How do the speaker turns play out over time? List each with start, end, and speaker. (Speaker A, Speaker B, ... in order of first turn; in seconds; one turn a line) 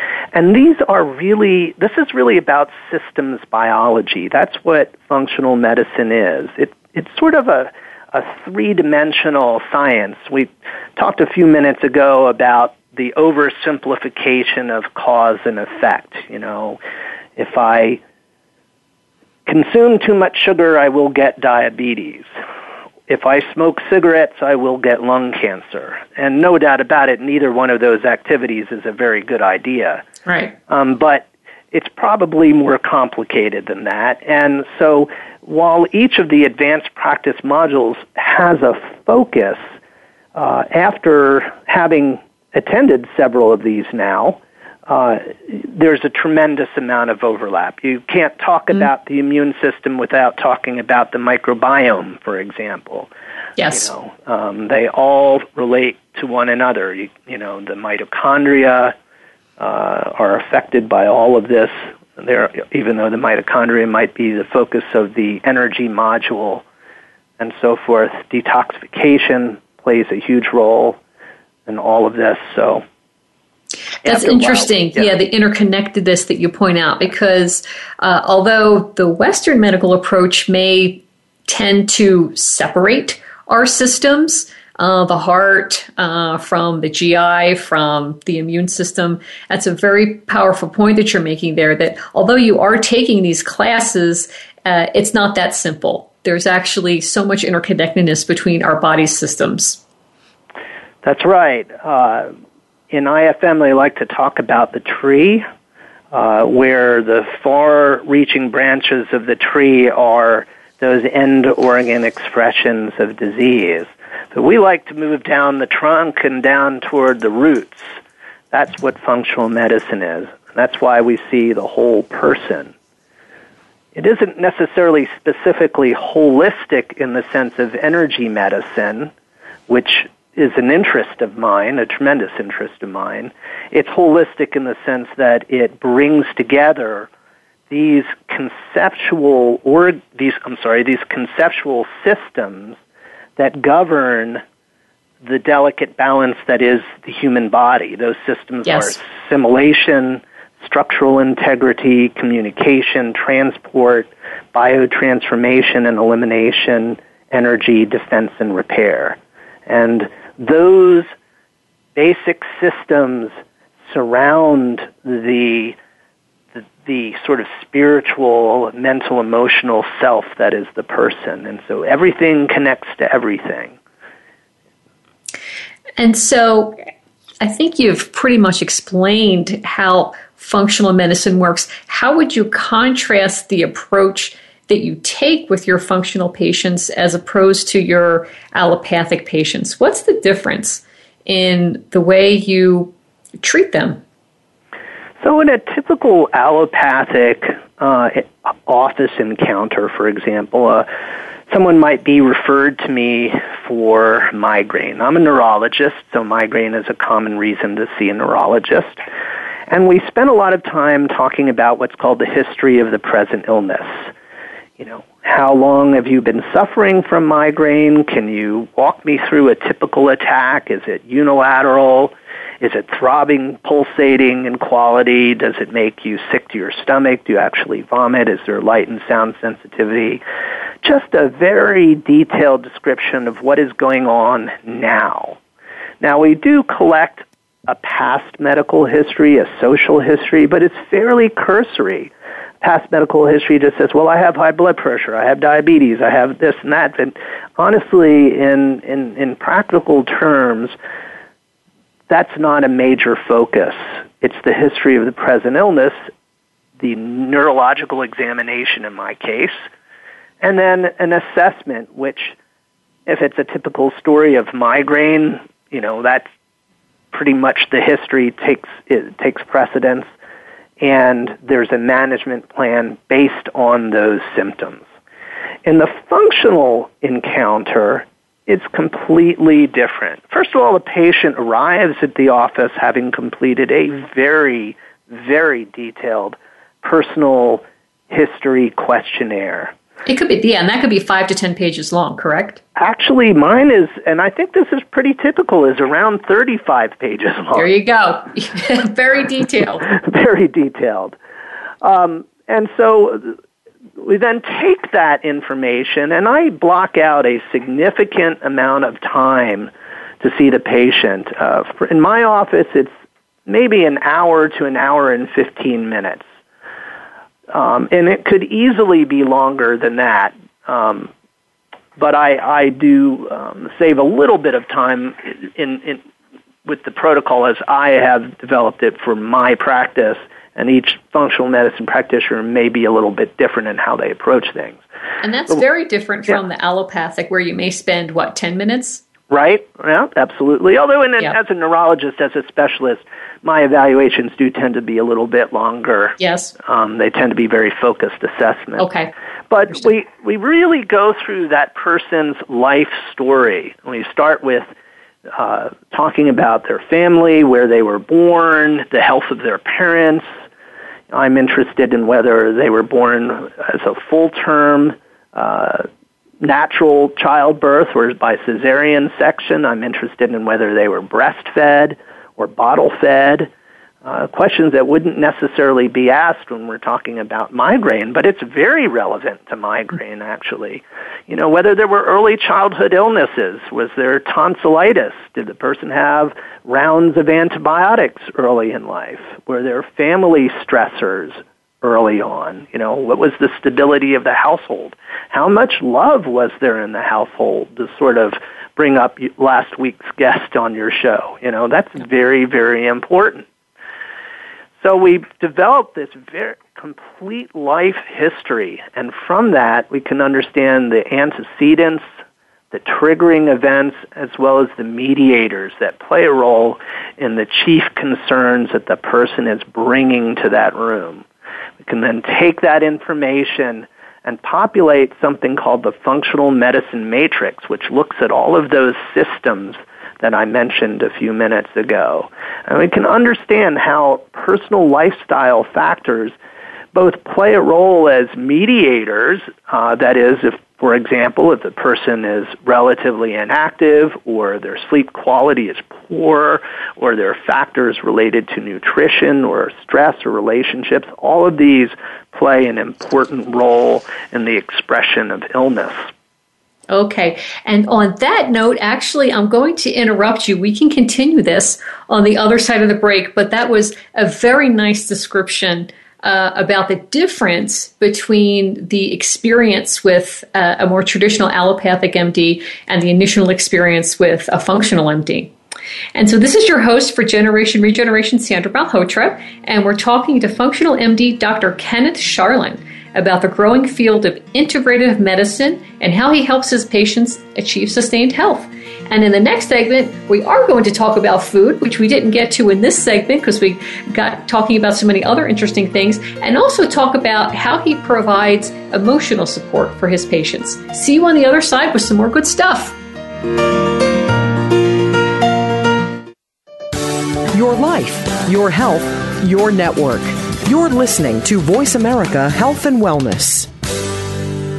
Speaker A: 0.3-16.8
Speaker A: 17.4-18.0
Speaker A: 19.5-22.3
Speaker A: 23.1-30.0
Speaker B: 30.3-30.5
Speaker A: 30.7-39.7
Speaker A: 40.4-53.1
Speaker B: 53.6-53.9
Speaker A: 53.7-59.0
Speaker A: 59.6-66.6
Speaker A: 67.4-71.0
Speaker A: 71.7-72.8
Speaker A: 74.0-75.1
Speaker B: 74.0-99.8
Speaker A: 101.0-102.3
Speaker A: 102.9-105.5
Speaker A: 106.1-118.0
Speaker A: 118.5-122.7
Speaker A: 124.0-129.1
Speaker A: 129.7-137.1
Speaker A: 137.7-142.8
Speaker A: 143.4-144.4
Speaker A: 145.2-161.1
Speaker B: 148.7-149.0
Speaker A: 162.0-163.3
Speaker A: 163.9-165.8
Speaker A: 166.6-173.7
Speaker B: 176.0-176.8
Speaker B: 177.4-194.0
Speaker A: 195.2-200.9
Speaker A: 201.5-209.0
Speaker A: 209.7-214.1
Speaker A: 214.8-230.2
Speaker A: 230.8-235.4
Speaker A: 236.0-250.8
Speaker A: 252.1-256.0
Speaker A: 256.8-259.6
Speaker A: 260.4-262.4
Speaker A: 263.1-266.3
Speaker A: 267.1-270.1
Speaker A: 270.8-274.8
Speaker A: 275.6-289.7
Speaker B: 290.1-292.6
Speaker A: 292.8-297.7
Speaker B: 297.5-299.9
Speaker A: 299.9-301.2
Speaker A: 301.8-303.4
Speaker A: 304.0-312.9
Speaker A: 313.5-316.2
Speaker A: 317.5-321.1
Speaker A: 322.0-326.0
Speaker A: 326.7-334.8
Speaker B: 335.2-339.0
Speaker A: 339.3-348.9
Speaker B: 346.2-346.5
Speaker B: 348.8-349.1
Speaker A: 349.5-354.7
Speaker A: 355.3-360.3
Speaker A: 361.1-365.9
Speaker A: 366.4-373.5
Speaker A: 374.0-403.5
Speaker A: 404.8-412.1
Speaker A: 412.7-421.2
Speaker A: 421.8-436.4
Speaker A: 436.9-456.1
Speaker B: 456.9-475.5
Speaker B: 476.1-503.0
Speaker C: 507.5-513.7